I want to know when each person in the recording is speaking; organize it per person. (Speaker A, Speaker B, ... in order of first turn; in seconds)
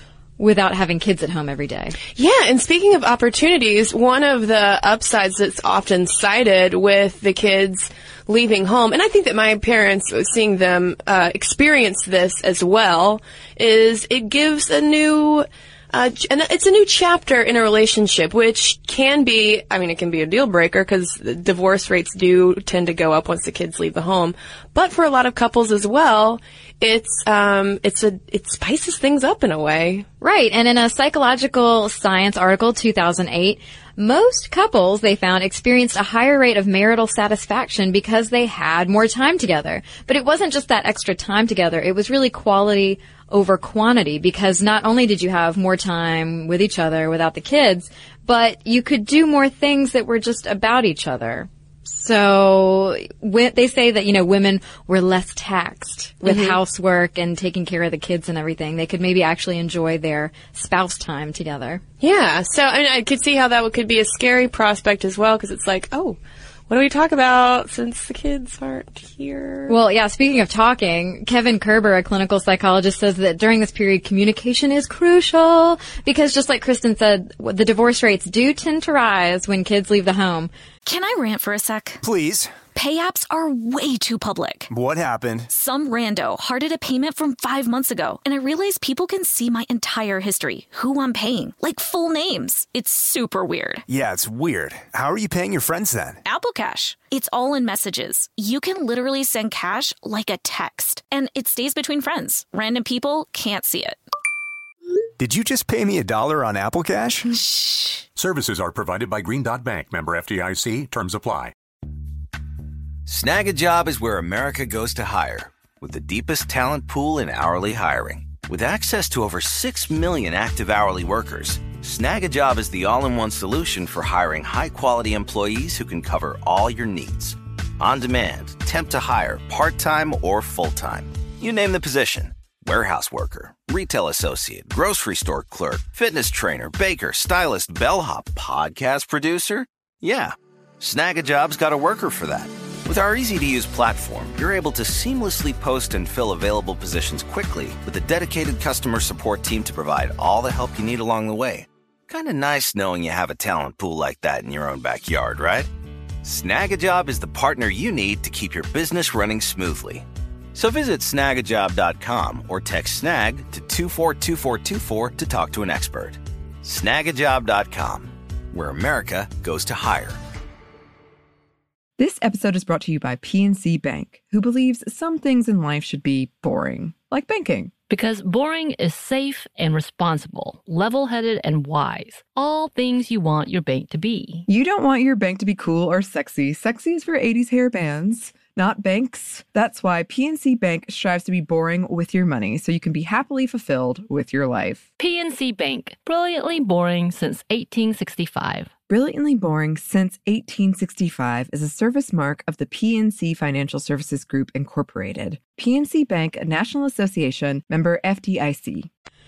Speaker A: 0.4-1.9, 30.2-61.8, 69.7-80.5
Speaker B: 2.1-30.1, 56.2-56.6, 62.0-66.2, 66.7-69.7
Speaker C: 80.8-82.0, 82.7-84.7, 85.5-93.8, 96.2-104.0, 107.5-108.0
Speaker D: 82.0-82.6, 84.7-85.5, 93.9-96.2, 105.2-107.3
Speaker E: 108.2-111.5
Speaker F: 113.0-155.7, 156.2-170.2
Speaker G: 172.0-177.7, 184.5-194.9, 198.9-208.9
Speaker H: 177.9-184.4, 195.0-198.7